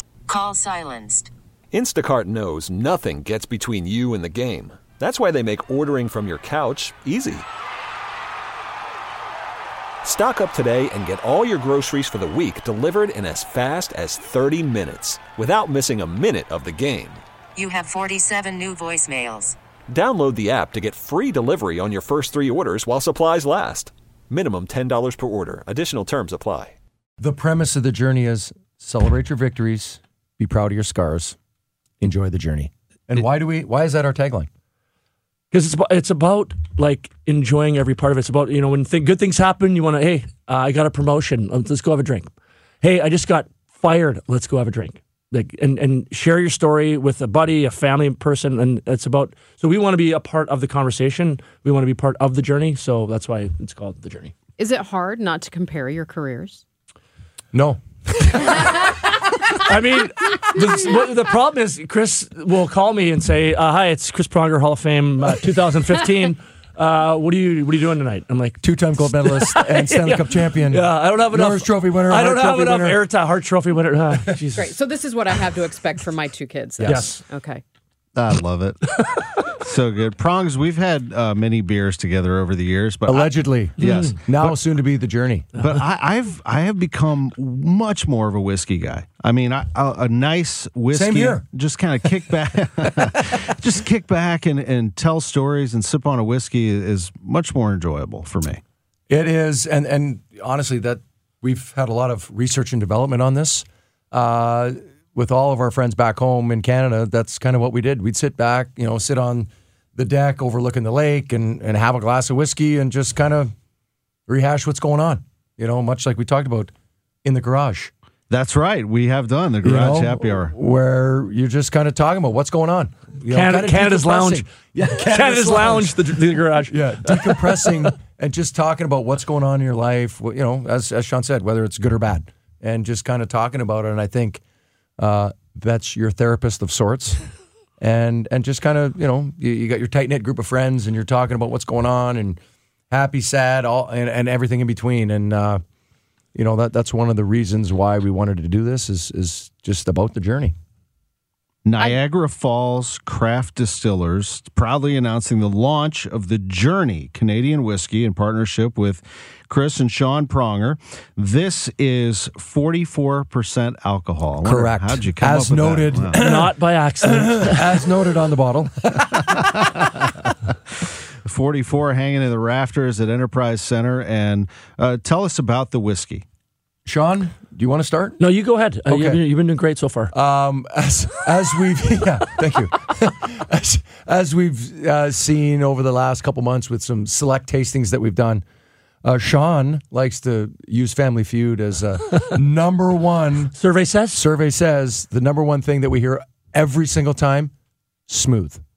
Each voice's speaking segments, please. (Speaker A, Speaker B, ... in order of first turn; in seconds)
Speaker A: 0.3-1.3, 17.6-19.6
Speaker B: 1.7-7.5, 10.0-17.2, 19.9-26.8
Speaker C: 27.2-31.3, 32.0-34.5, 57.5-58.2, 68.6-73.0, 76.8-77.1, 83.1-85.5, 90.9-91.4, 99.1-113.5, 114.3-116.7, 117.2-117.9, 119.6-126.0, 126.7-134.4, 135.0-137.2, 137.8-142.4, 142.9-145.6, 146.3-150.5, 164.4-166.5, 167.0-169.6, 176.8-178.2, 178.9-179.2, 180.1-188.4, 189.0-193.5, 194.1-197.5, 198.1-198.6
Speaker D: 35.5-54.3, 59.5-74.7, 76.8-77.2, 79.0-79.4, 123.3-127.5, 166.2-167.7, 178.2-180.1, 193.5-194.2
Speaker E: 54.6-56.6, 74.6-77.6
Speaker F: 78.1-78.8, 79.6-84.6, 85.6-98.6, 118.3-120.5, 151.6-166.2, 171.2-176.2